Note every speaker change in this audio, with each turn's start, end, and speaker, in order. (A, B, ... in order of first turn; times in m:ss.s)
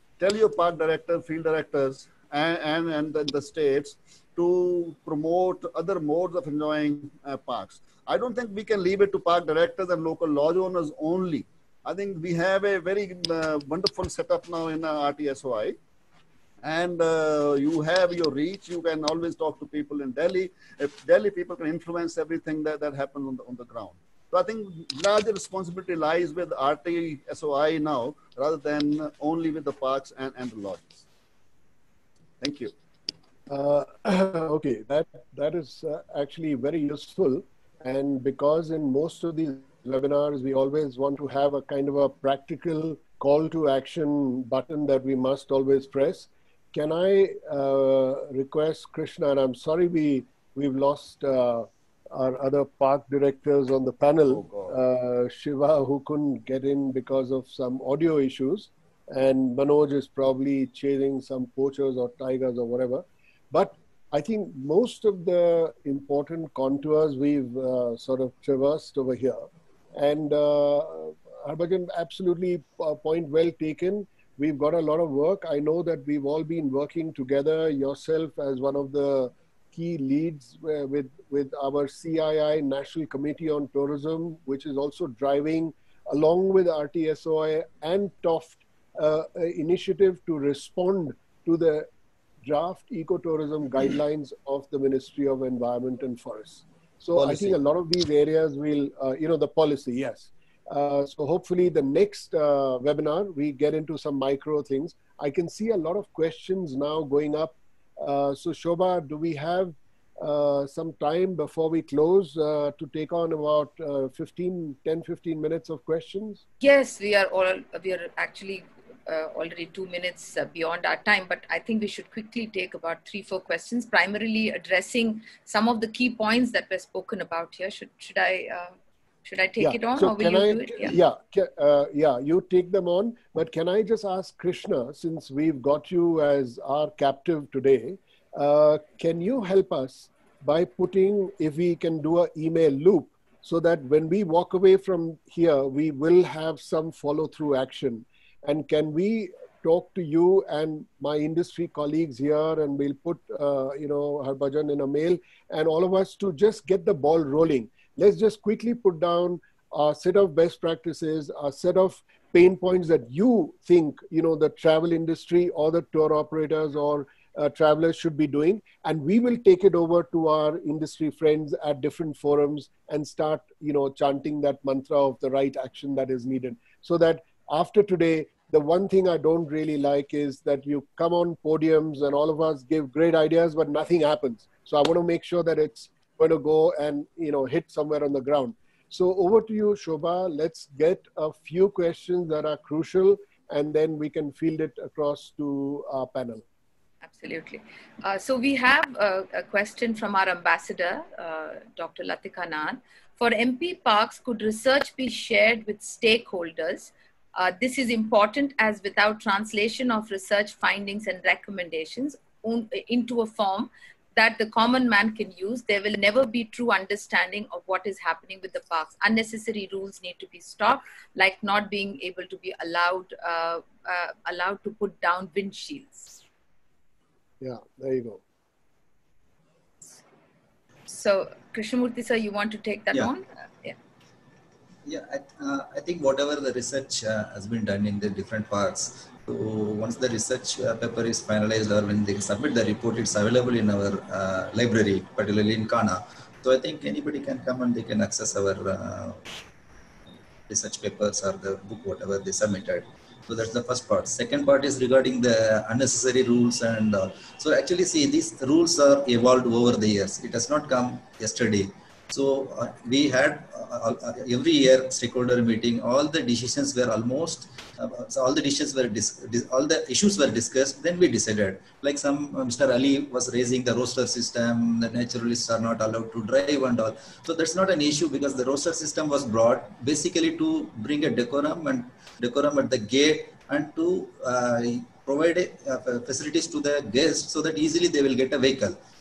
0:00.2-0:15.8 A
0:16.6-0:31.0 A
0:32.4-0:32.7 A
0:33.5-1:09.4 B
0:54.3-0:54.8 A
1:10.0-1:31.9 B
1:32.4-1:56.4 B
1:37.2-1:37.6 A
1:56.6-2:08.7 C
2:09.2-2:10.9 C
2:09.6-3:16.4 B
3:17.0-3:46.1 C
3:47.4-3:48.2 B
3:50.9-3:53.8 C
3:54.8-4:09.2 D
4:10.5-4:48.8 D